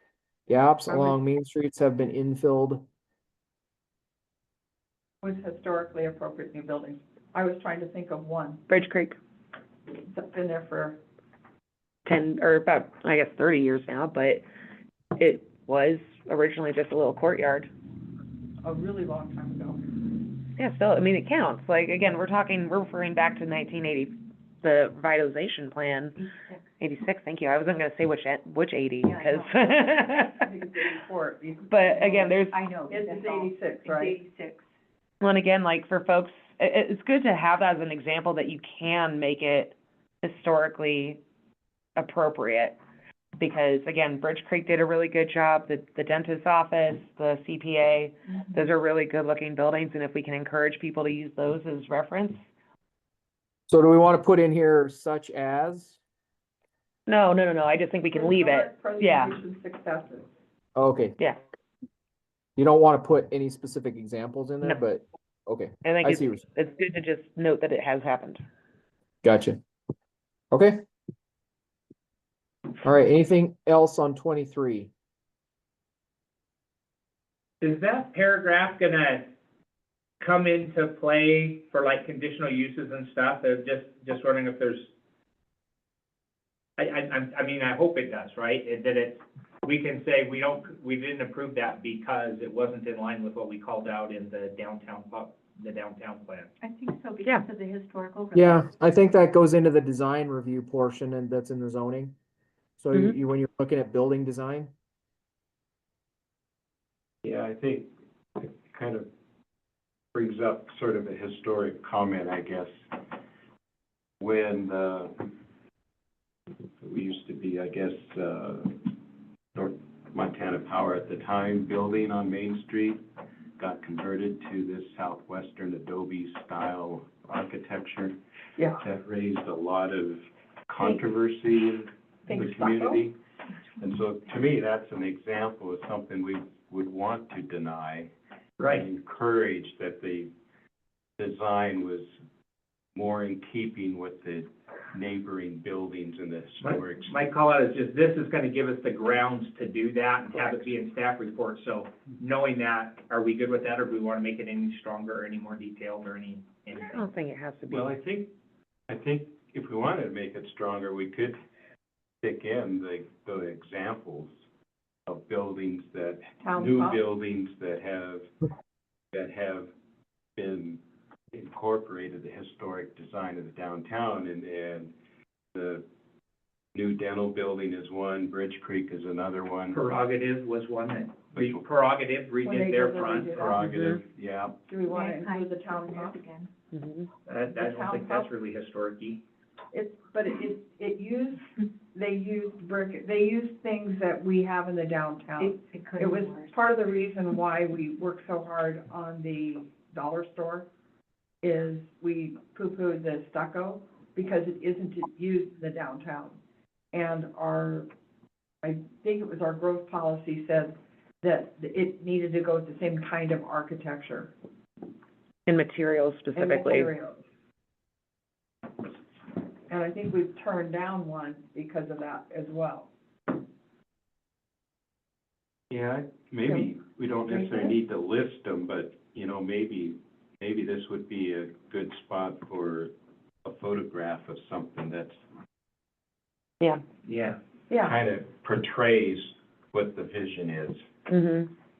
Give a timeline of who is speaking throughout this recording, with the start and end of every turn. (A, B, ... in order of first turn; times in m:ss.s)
0:00.5-0:02.8 A
0:00.9-0:01.2 B
0:05.2-0:08.6 B
0:08.7-0:09.2 C
0:10.0-0:11.0 B
0:12.0-0:14.4 C
0:15.2-0:17.7 C
0:18.6-0:20.0 B
0:20.6-0:26.2 C
0:26.8-0:30.4 C
0:29.0-0:29.6 D
0:30.4-0:34.2 B
0:31.7-0:32.5 C
0:32.5-0:34.6 D
0:35.2-0:41.2 C
0:42.0-0:42.8 C
0:43.4-0:52.4 C
0:53.7-0:56.0 A
0:57.1-0:59.4 C
0:58.1-1:00.3 B
1:00.8-1:01.2 A
1:02.6-1:06.4 A
1:05.8-1:08.4 C
1:09.2-1:09.6 A
1:10.5-1:10.8 A
1:12.8-1:14.9 A
1:17.6-1:19.3 E
1:20.2-1:24.9 E
1:26.8-1:36.5 E
1:36.6-1:38.7 D
1:38.3-1:42.1 A
1:42.8-1:44.7 A
1:47.2-1:49.1 F
1:50.1-1:52.7 F
1:54.2-1:55.3 F
1:56.8-1:58.9 F
1:59.5-2:03.0 F
2:03.6-2:08.2 F
2:08.8-2:13.2 F
2:12.2-2:13.0 B
2:13.8-2:18.1 F
2:18.6-2:18.8 E
2:18.7-2:20.3 F
2:21.2-2:22.1 F
2:22.9-2:27.2 F
2:26.6-2:37.1 E
2:36.8-2:37.9 C
2:37.7-2:38.3 F
2:38.9-2:41.4 F
2:42.2-2:44.3 F
2:45.0-2:48.3 F
2:46.4-2:47.0 B
2:49.1-2:49.7 F
2:50.4-2:50.8 F
2:51.3-2:54.9 F
2:55.5-2:55.8 F
2:56.7-2:59.8 F
2:59.7-3:03.6 E
3:01.3-3:01.6 F
3:02.4-3:03.6 B
3:03.3-3:04.6 F
3:03.6-3:04.0 C
3:04.7-3:06.2 B
3:04.9-3:06.5 D
3:06.7-3:07.1 C
3:07.2-3:09.2 E
3:07.5-3:08.3 B
3:09.7-3:20.7 B
3:15.4-3:16.6 D
3:21.4-3:26.4 B
3:26.9-3:27.9 B
3:28.6-3:34.3 B
3:35.4-3:36.9 C
3:36.3-3:37.2 B
3:39.7-3:42.9 B
3:45.7-3:52.9 F
3:47.3-3:47.7 B
3:53.4-3:55.2 F
3:57.0-3:57.4 E
3:57.7-4:00.9 F
4:01.1-4:01.5 C